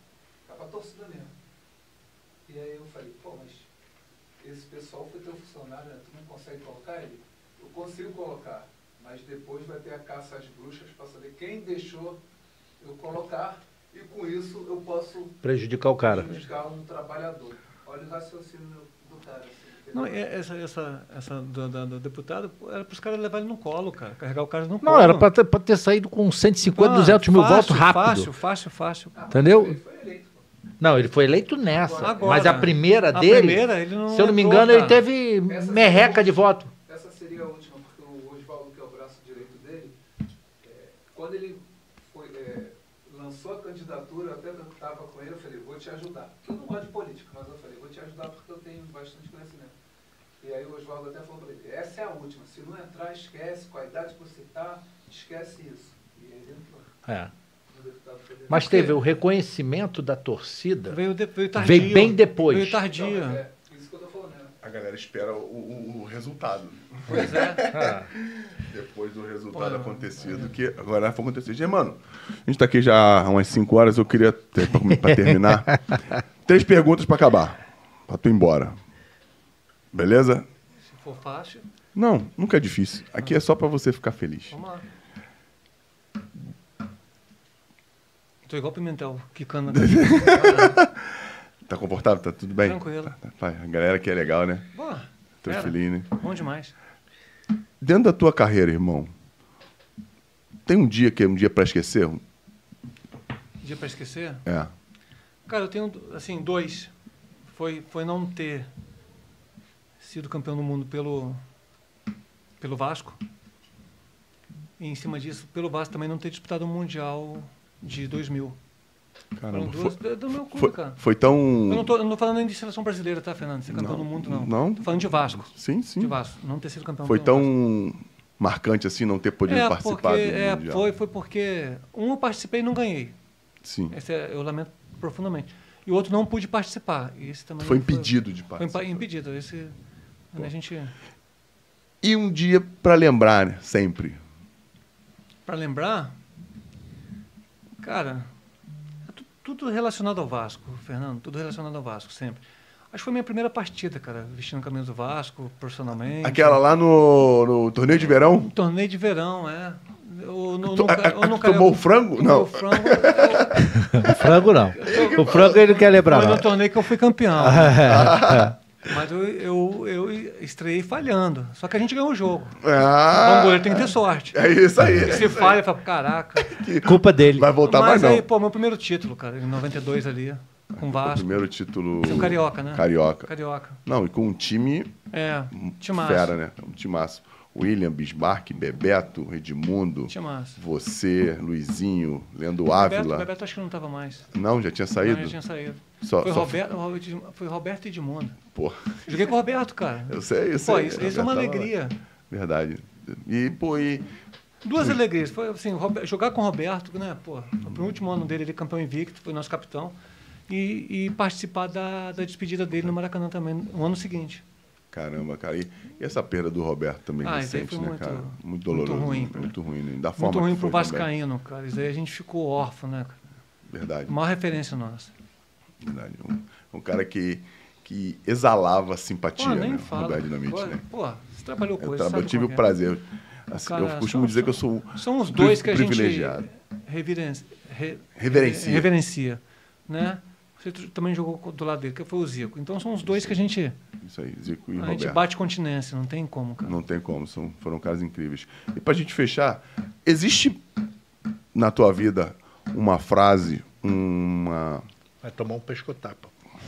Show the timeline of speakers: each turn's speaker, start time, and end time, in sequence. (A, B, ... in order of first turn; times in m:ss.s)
0:00.4-0:01.3 A
0:02.4-0:03.7 A
0:04.4-0:12.2 A
0:12.8-0:15.4 A
0:15.4-0:16.3 B
0:16.0-0:20.2 A
0:19.9-0:25.3 C
0:24.8-0:28.3 B
0:26.7-0:29.1 C
0:29.1-0:30.4 A
0:29.3-0:29.8 B
0:30.8-0:36.7 B
0:31.7-0:32.7 A
0:32.0-0:35.0 C
0:35.5-0:40.0 A
0:40.6-0:49.7 A
0:50.4-0:56.9 A
0:57.0-0:57.3 B
0:57.7-0:58.8 A
0:58.5-1:01.0 B
0:58.5-0:59.0 C
1:00.9-1:03.4 C
1:01.5-1:02.8 B
1:02.8-1:04.5 A
1:04.6-1:18.8 D
1:07.1-1:07.7 C
1:07.7-1:08.1 B
1:09.5-1:10.4 C
1:15.0-1:16.0 B
1:19.9-1:20.4 D
1:20.8-1:21.6 C
1:21.9-1:24.6 D
1:24.5-1:24.8 C
1:28.4-1:30.8 C
1:29.7-1:34.7 D
1:32.6-1:33.1 C
1:34.7-1:36.7 C
1:35.4-1:36.1 D
1:37.8-1:39.1 D
1:40.6-1:42.2 D
1:43.6-1:44.4 C
1:44.4-1:44.7 D
1:45.5-1:46.9 C
1:47.5-1:48.7 C
1:50.0-1:51.4 C
1:52.6-1:53.2 C
1:54.8-1:58.6 C
1:59.4-2:00.0 D
1:59.5-2:01.0 C
2:00.5-2:01.9 D
2:01.7-2:07.5 C
2:03.7-2:04.9 D
2:05.4-2:06.1 D
2:07.0-2:10.8 D
2:09.5-2:13.2 C
2:13.6-2:13.9 D
2:13.9-2:19.7 C
2:17.6-2:19.0 D
2:20.3-2:20.9 C
2:22.0-2:24.2 D
2:25.4-2:26.2 C
2:27.8-2:28.3 C
2:29.1-2:36.6 C
2:36.2-2:38.5 D
2:38.4-2:44.1 C
2:40.7-2:44.3 D
2:43.7-2:46.6 B
2:44.8-2:45.9 D
2:44.8-2:48.0 C
2:47.3-2:48.5 B
2:47.8-2:48.5 D
2:48.8-2:54.4 C
2:52.6-2:55.6 D
2:55.0-2:56.6 C
2:56.4-2:58.2 D
2:56.8-2:57.5 B
2:57.6-3:01.4 C
3:00.7-3:03.3 D
3:02.0-3:03.8 C
3:03.8-3:04.9 D
3:05.1-3:06.3 C
3:05.5-3:13.3 D
3:10.1-3:10.6 C
3:12.7-3:14.3 C
3:14.3-3:15.4 D
3:15.0-3:18.4 C
3:16.0-3:16.6 D
3:18.5-3:19.3 D
3:19.1-3:22.0 C
3:20.1-3:21.7 D
3:22.3-3:24.1 D
3:24.6-3:29.9 C
3:30.5-3:34.4 C
3:34.9-3:41.1 D
3:37.2-3:39.5 C
3:40.2-3:43.2 C
3:43.7-3:44.1 D
3:44.1-3:45.1 C
3:45.8-3:50.8 D
3:49.4-3:52.7 C
3:51.8-3:56.4 D
3:53.6-4:03.8 C
3:58.2-3:58.9 D
4:03.1-4:03.3 D
4:04.0-4:05.2 D
4:04.8-4:06.8 C
4:06.6-4:10.6 D
4:11.5-4:14.8 D
4:15.2-4:16.3 B